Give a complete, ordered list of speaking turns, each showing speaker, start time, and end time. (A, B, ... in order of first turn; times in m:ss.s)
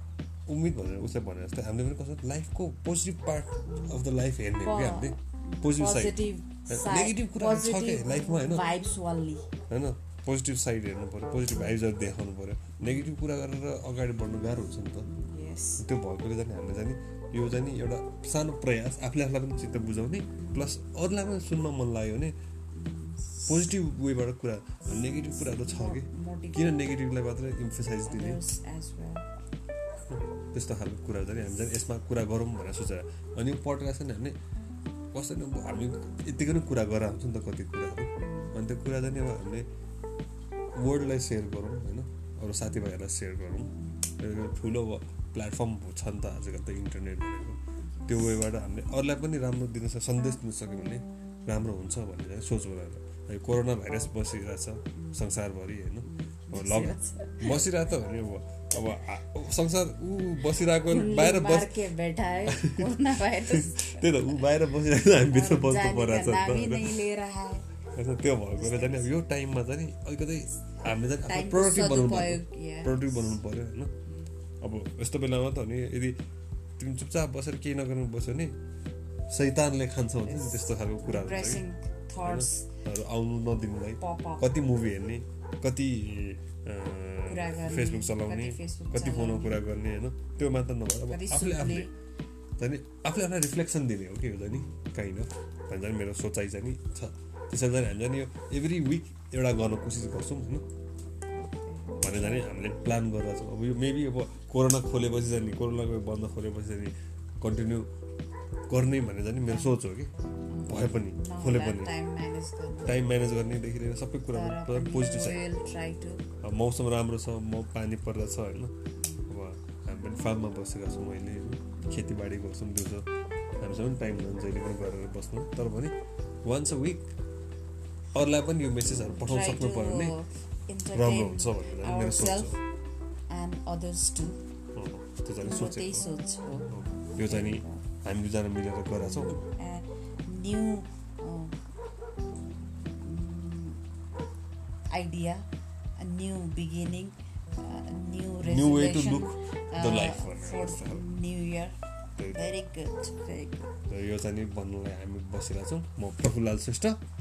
0:00.5-0:08.8 A
0:03.6-0:04.0 B
0:04.5-0:09.4 B
0:09.7-0:15.1 A
0:12.8-0:13.1 B
0:15.0-0:15.8 B
0:15.8-0:22.3 A
0:20.4-0:20.7 B
0:22.7-0:23.7 B
0:23.4-0:28.4 A
0:25.4-0:26.9 B
0:28.0-0:29.2 B
0:30.1-0:34.4 A
0:35.1-0:39.6 A
0:38.2-0:38.6 B
0:40.7-1:01.8 A
0:43.7-0:44.1 B
0:47.8-0:48.4 B
0:54.9-0:55.3 B
0:56.0-0:57.7 B
1:00.6-1:04.5 B
1:02.4-1:07.0 A
1:05.1-1:07.6 B
1:07.9-1:13.9 A
1:08.5-1:09.1 B
1:11.2-1:13.4 B
1:14.6-1:16.2 A
1:16.8-1:18.6 A
1:19.3-1:21.6 A
1:20.2-1:22.7 B
1:22.2-1:31.9 A
1:24.0-1:24.5 B
1:27.3-1:29.6 B
1:31.0-1:31.9 B
1:32.6-1:40.6 A
1:41.3-1:42.6 B
1:42.0-1:47.9 A
1:48.7-1:50.1 A
1:49.4-1:49.7 B
1:50.5-1:53.1 B
1:50.7-1:51.9 A
1:52.8-1:55.4 A
1:54.3-1:56.2 B
1:56.4-1:58.7 A
1:59.0-1:59.4 B
1:59.3-2:03.0 A
2:03.6-2:07.1 A
2:08.1-2:10.2 A
2:09.0-2:12.6 B
2:10.9-2:12.6 A
2:13.3-2:14.4 B
2:14.7-2:16.1 A
2:15.4-2:17.8 B
2:16.7-2:19.4 A
2:19.0-2:21.6 B
2:23.0-2:23.8 B
2:24.9-2:25.4 B
2:26.0-2:31.8 B
2:28.4-2:31.0 A
2:32.2-2:32.5 A
2:32.3-2:33.7 B
2:33.9-2:37.0 A